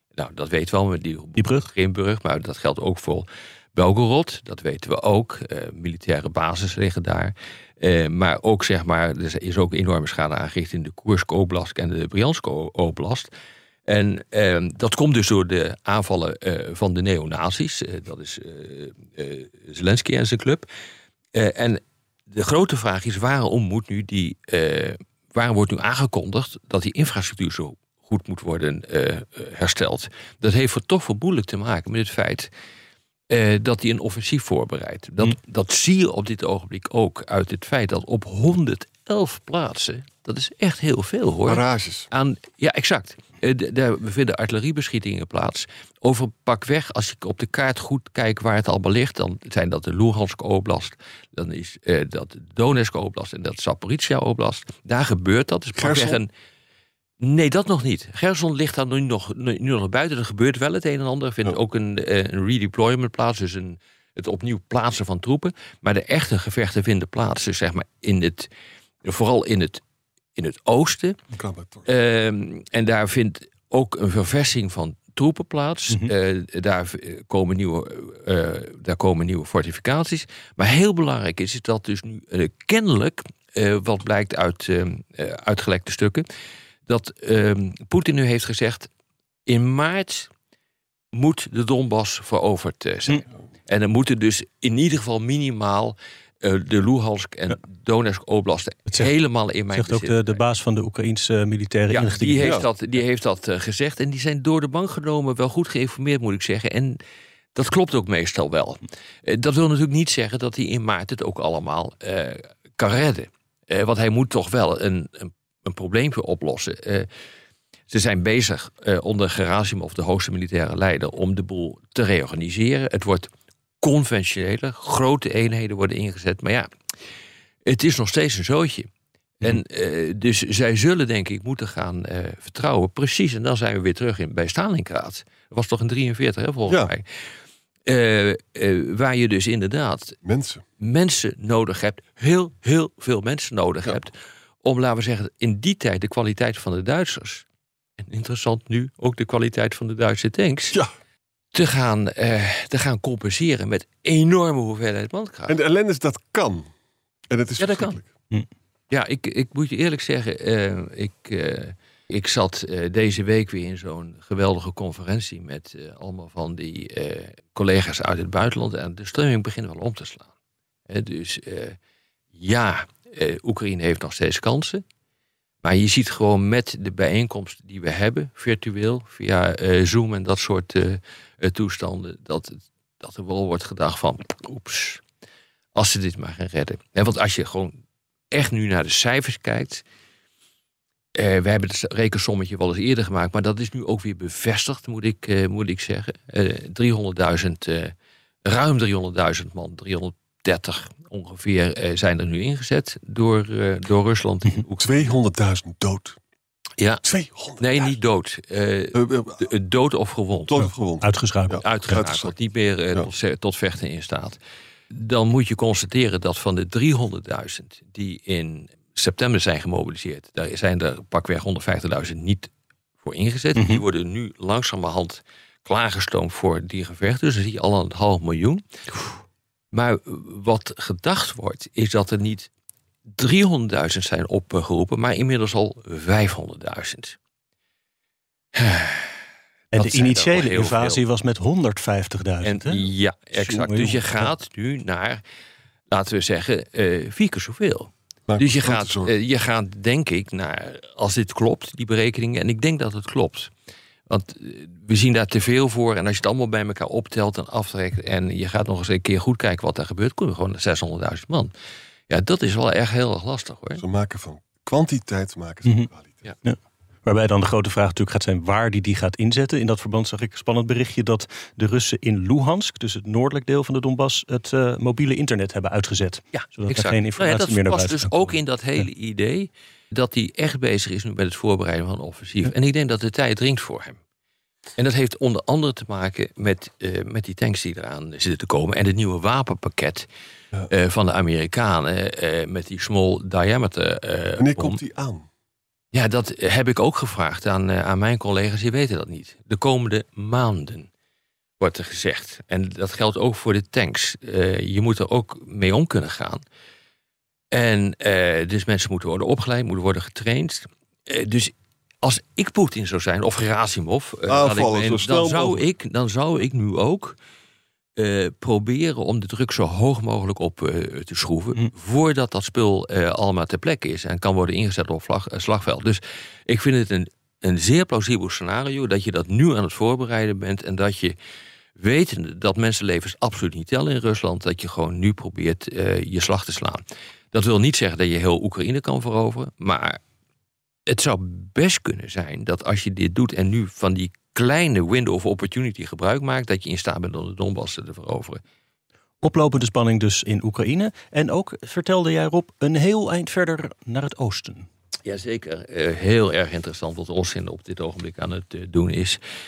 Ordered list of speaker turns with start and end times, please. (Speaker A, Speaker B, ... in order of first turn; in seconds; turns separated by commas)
Speaker A: 0.1-13.3, Speaker B: 1.4-1.7, Speaker A: 13.9-20.7, Speaker A: 21.3-32.5, Speaker A: 33.3-56.3, Speaker C: 41.4-42.1, Speaker C: 55.7-56.2, Speaker A: 57.2-68.5, Speaker A: 69.0-69.8, Speaker A: 70.3-71.2, Speaker C: 71.3-71.9, Speaker A: 71.9-86.2, Speaker A: 86.8-88.9, Speaker A: 89.5-90.3, Speaker A: 91.1-100.4, Speaker B: 99.7-102.7, Speaker A: 101.9-107.0, Speaker A: 107.5-117.1, Speaker A: 117.9-123.3, Speaker A: 123.8-126.7, Speaker A: 127.7-128.9, Speaker A: 129.4-137.0, Speaker C: 136.7-136.9, Speaker A: 137.8-140.2, Speaker C: 140.2-140.6, Speaker A: 140.8-147.4, Speaker A: 148.0-150.8, Speaker A: 151.5-155.5, Speaker C: 155.5-156.7, Speaker C: 157.3-158.1, Speaker A: 157.6-158.0, Speaker A: 158.9-170.3, Speaker A: 170.9-171.8, Speaker A: 172.3-174.8, Speaker A: 175.6-185.0, Speaker A: 185.7-187.8, Speaker A: 188.3-189.8, Speaker A: 191.2-197.9, Speaker A: 198.4-205.1, Speaker C: 204.8-206.2, Speaker A: 206.8-207.0, Speaker C: 207.0-207.9, Speaker A: 207.6-210.7, Speaker C: 208.9-209.4, Speaker C: 210.5-212.3, Speaker B: 210.7-212.0, Speaker A: 211.6-214.4, Speaker A: 214.9-222.5, Speaker A: 223.0-229.1, Speaker B: 223.5-223.8, Speaker A: 229.7-232.5, Speaker A: 233.1-237.2, Speaker A: 238.6-239.2, Speaker B: 239.7-242.8, Speaker A: 239.7-241.0, Speaker A: 242.4-245.2, Speaker B: 243.3-244.3, Speaker A: 245.9-253.5, Speaker C: 248.3-249.1, Speaker A: 254.1-261.5, Speaker A: 262.1-263.8, Speaker C: 263.8-266.3, Speaker B: 266.4-278.3, Speaker A: 276.3-284.0, Speaker A: 284.8-290.1, Speaker A: 290.7-294.8, Speaker C: 294.4-295.2, Speaker A: 295.9-300.9, Speaker A: 301.6-306.4, Speaker A: 307.5-317.2, Speaker C: 314.3-315.6, Speaker A: 318.0-331.1, Speaker A: 331.8-340.0, Speaker A: 340.9-348.4, Speaker B: 349.2-354.7, Speaker A: 355.1-359.2